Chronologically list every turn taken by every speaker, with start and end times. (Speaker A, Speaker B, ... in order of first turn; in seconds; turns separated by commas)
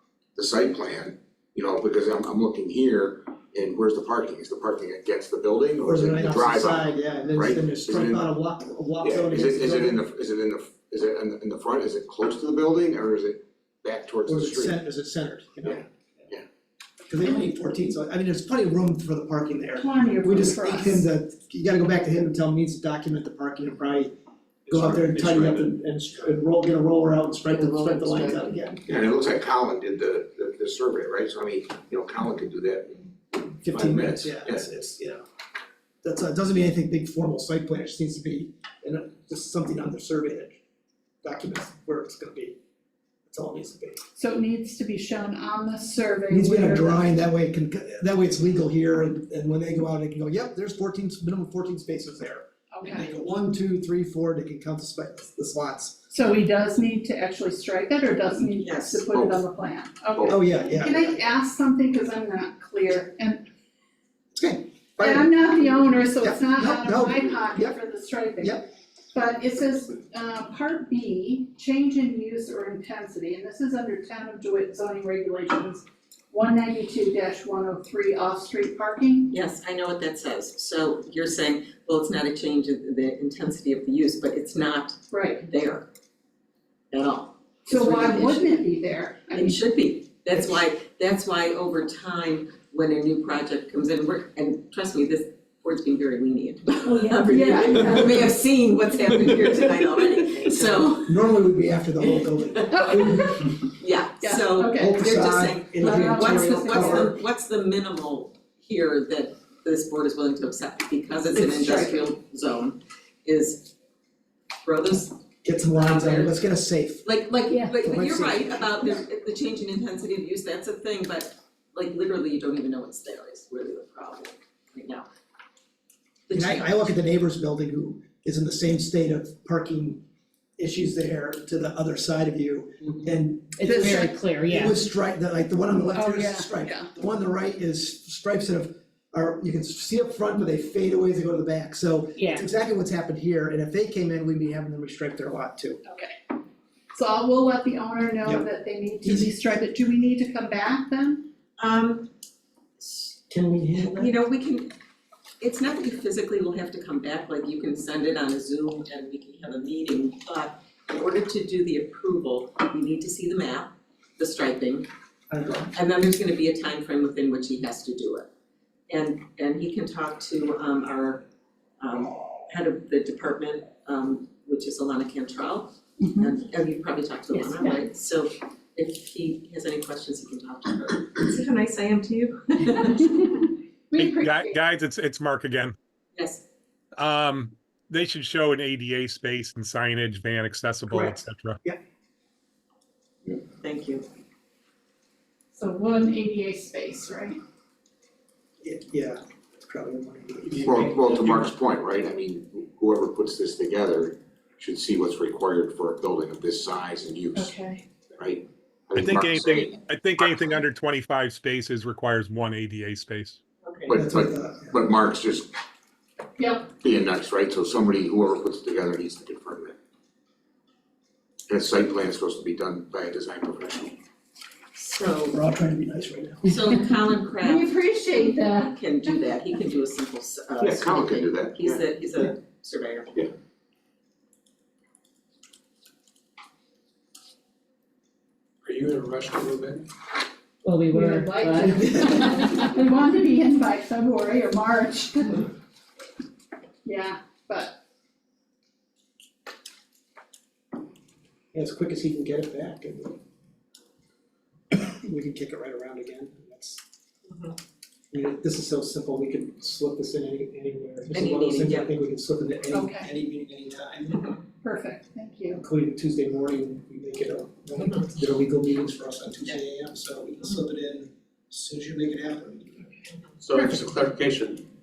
Speaker A: 0.4-8.3, Speaker B: 5.8-10.0, Speaker A: 9.0-14.8, Speaker B: 14.3-16.3, Speaker A: 15.6-16.4, Speaker B: 17.1-24.1, Speaker C: 19.8-21.1, Speaker D: 24.7-25.7, Speaker B: 24.7-29.0, Speaker E: 27.5-28.6, Speaker A: 28.9-34.7, Speaker B: 33.6-35.2, Speaker B: 36.0-40.6, Speaker B: 41.2-42.6, Speaker B: 43.3-44.0, Speaker C: 44.2-47.1, Speaker B: 46.3-56.0, Speaker C: 52.7-53.0, Speaker C: 56.1-63.4, Speaker F: 58.6-59.1, Speaker A: 59.1-59.5, Speaker A: 60.1-60.4, Speaker B: 60.3-61.2, Speaker B: 64.3-65.3, Speaker C: 65.0-79.3, Speaker B: 66.2-67.8, Speaker F: 79.3-85.9, Speaker C: 85.1-85.4, Speaker F: 86.9-88.6, Speaker C: 87.7-89.6, Speaker F: 89.3-101.2, Speaker C: 97.3-98.2, Speaker B: 101.0-103.5, Speaker F: 102.7-113.7, Speaker C: 102.7-103.4, Speaker C: 104.2-105.0, Speaker B: 104.7-107.1, Speaker C: 105.8-107.1, Speaker C: 111.4-112.0, Speaker F: 114.6-115.2, Speaker B: 115.4-117.1, Speaker F: 115.7-116.4, Speaker F: 117.0-125.1, Speaker B: 117.8-118.9, Speaker F: 126.3-126.7, Speaker B: 126.3-130.0, Speaker B: 130.6-145.8, Speaker E: 133.6-134.8, Speaker C: 133.6-134.1, Speaker C: 135.9-136.9, Speaker E: 142.2-142.5, Speaker C: 145.8-146.2, Speaker C: 146.9-151.2, Speaker B: 149.0-149.3, Speaker F: 151.6-152.1, Speaker F: 152.8-153.1, Speaker B: 153.3-154.1, Speaker F: 153.9-154.7, Speaker F: 155.4-164.9, Speaker B: 165.3-165.7, Speaker F: 165.7-168.3, Speaker F: 168.9-171.2, Speaker F: 171.8-183.5, Speaker C: 177.3-177.8, Speaker C: 183.9-184.7, Speaker G: 184.0-185.8, Speaker F: 186.2-186.4, Speaker G: 187.0-191.6, Speaker B: 190.9-191.8, Speaker F: 193.6-194.1, Speaker C: 195.5-197.4, Speaker B: 198.6-201.0, Speaker A: 200.6-207.6, Speaker G: 200.7-201.5, Speaker C: 207.3-207.8, Speaker A: 208.2-210.5, Speaker G: 208.9-213.4, Speaker F: 213.6-213.9, Speaker A: 213.9-215.5, Speaker B: 213.9-214.8, Speaker C: 216.4-216.7, Speaker A: 216.8-219.8, Speaker A: 221.5-224.0, Speaker F: 224.8-225.4, Speaker B: 225.3-226.6, Speaker F: 226.4-233.2, Speaker C: 227.4-228.8, Speaker A: 230.6-231.8, Speaker D: 238.6-239.9, Speaker E: 240.6-242.2, Speaker C: 240.9-245.5, Speaker B: 241.9-242.2, Speaker C: 246.8-247.8, Speaker B: 251.5-253.2, Speaker B: 254.7-256.8, Speaker F: 257.3-257.6, Speaker B: 258.1-264.4, Speaker F: 261.1-261.9, Speaker C: 262.7-263.1, Speaker C: 264.6-265.6, Speaker B: 265.5-272.9, Speaker F: 267.8-268.1, Speaker D: 273.4-274.7